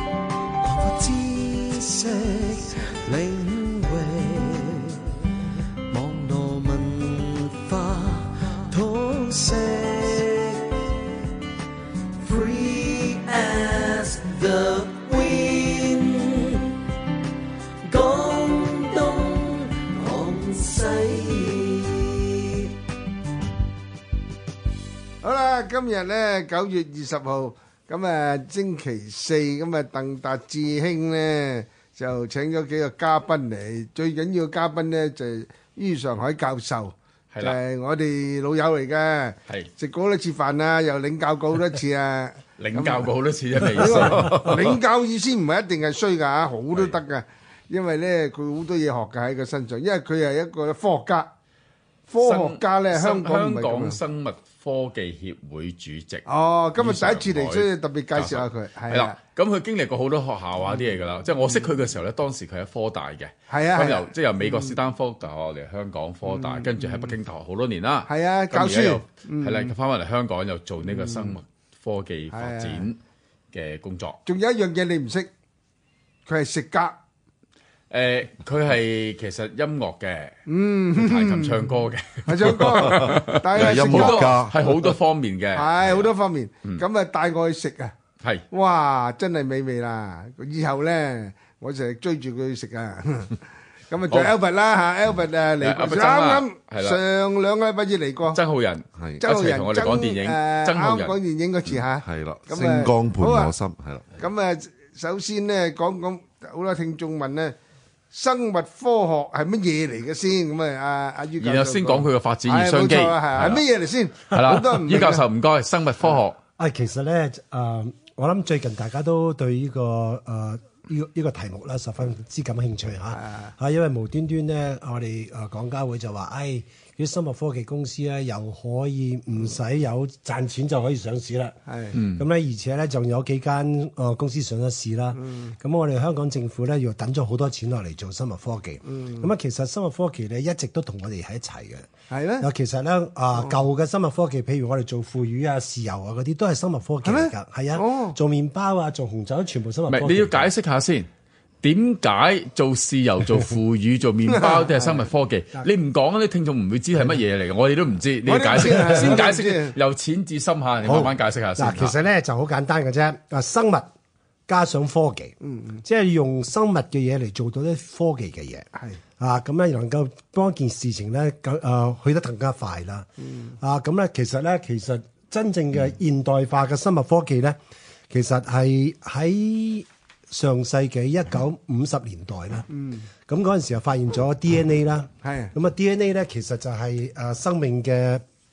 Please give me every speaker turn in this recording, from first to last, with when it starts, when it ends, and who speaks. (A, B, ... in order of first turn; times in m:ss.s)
0:00.6-0:05.2 A
0:05.9-0:10.9 A
0:12.2-0:16.8 A
0:17.8-0:22.7 A
0:25.2-0:43.1 B
0:37.3-0:37.6 C
0:42.6-0:44.8 C
0:43.7-0:51.3 B
0:52.1-0:54.0 B
0:52.2-0:56.2 C
0:56.3-0:59.1 B
0:56.8-1:13.0 C
1:03.5-1:04.7 B
1:06.3-1:07.1 B
1:08.1-1:09.7 B
1:10.9-1:11.3 B
1:12.3-1:12.8 B
1:13.5-1:14.2 C
1:14.3-1:15.3 B
1:16.3-1:17.0 B
1:17.9-1:20.4 C
1:20.5-1:21.6 B
1:21.0-1:26.1 C
1:22.3-1:24.3 B
1:22.6-1:24.8 D
1:25.5-1:28.0 B
1:28.2-1:28.5 C
1:28.5-1:38.4 B
1:35.6-1:37.0 C
1:38.3-1:41.2 C
1:39.0-1:39.4 D
1:39.2-1:43.5 B
1:41.7-1:44.2 D
1:44.1-1:47.6 B
1:48.1-1:55.2 B
1:51.4-1:53.6 C
1:54.3-1:56.4 C
1:56.6-2:21.9 E
2:11.7-2:12.0 B
2:11.9-2:12.2 C
2:15.2-2:15.5 B
2:18.9-2:19.2 B
2:22.1-2:22.5 B
2:22.4-2:30.5 E
2:27.0-2:28.2 B
2:29.9-2:31.1 C
2:31.6-2:42.0 C
2:34.8-2:35.7 E
2:38.3-2:39.8 B
2:40.8-2:43.9 E
2:44.5-2:48.7 E
2:49.2-2:57.6 E
2:58.1-3:02.7 E
3:02.7-3:03.1 B
3:03.3-3:08.2 E
3:05.2-3:05.5 B